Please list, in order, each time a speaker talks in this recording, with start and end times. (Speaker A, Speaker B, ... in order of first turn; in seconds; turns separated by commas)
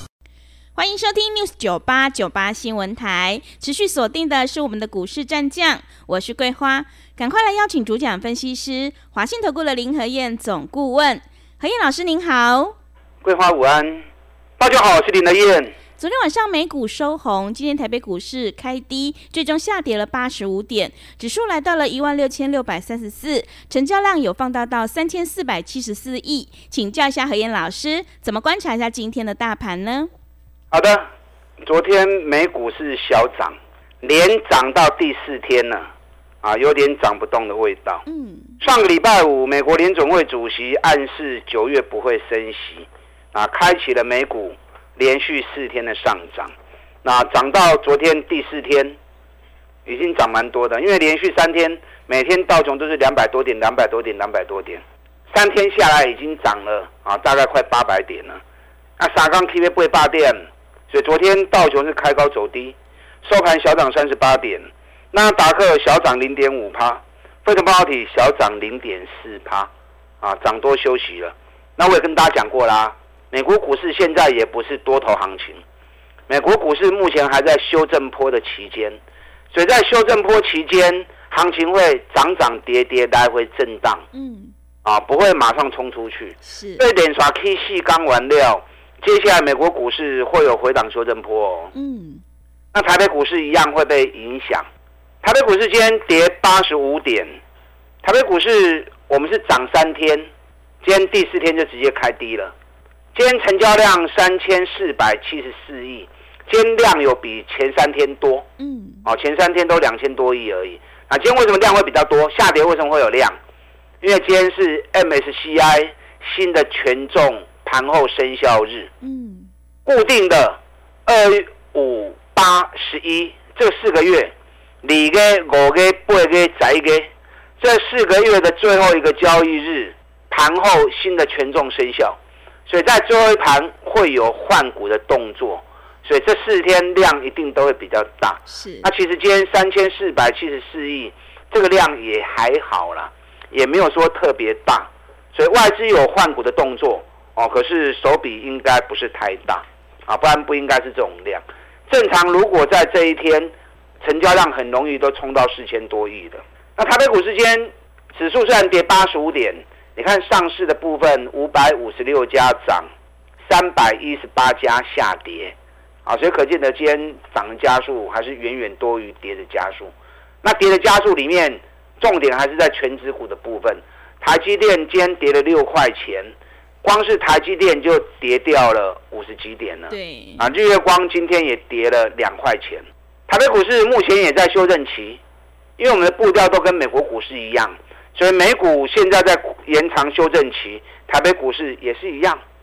Speaker A: 0.8-12.7, Speaker B: 13.2-14.1, Speaker B: 14.6-15.7, Speaker A: 16.0-30.1, Speaker B: 30.7-31.1, Speaker B: 31.6-35.9, Speaker B: 36.4-38.0, Speaker A: 38.1-38.5, Speaker B: 38.6-46.5, Speaker B: 47.0-49.0, Speaker B: 49.9-58.4, Speaker B: 59.0-69.7, Speaker B: 70.2-75.6, Speaker B: 76.3-79.0, Speaker B: 79.5-84.0, Speaker A: 84.1-84.5, Speaker B: 84.8-91.7, Speaker A: 86.4-86.8, Speaker A: 91.7-92.2, Speaker B: 92.7-94.7, Speaker B: 95.2-97.3, Speaker B: 98.0-100.3, Speaker B: 100.8-102.5, Speaker B: 103.1-108.5, Speaker A: 108.6-109.0, Speaker B: 109.0-113.3, Speaker B: 114.0-118.9, Speaker A: 119.0-119.5, Speaker B: 119.8-162.9, Speaker A: 138.5-138.9, Speaker B: 163.5-169.9, Speaker B: 170.4-185.2, Speaker A: 179.9-180.5, Speaker B: 185.8-192.4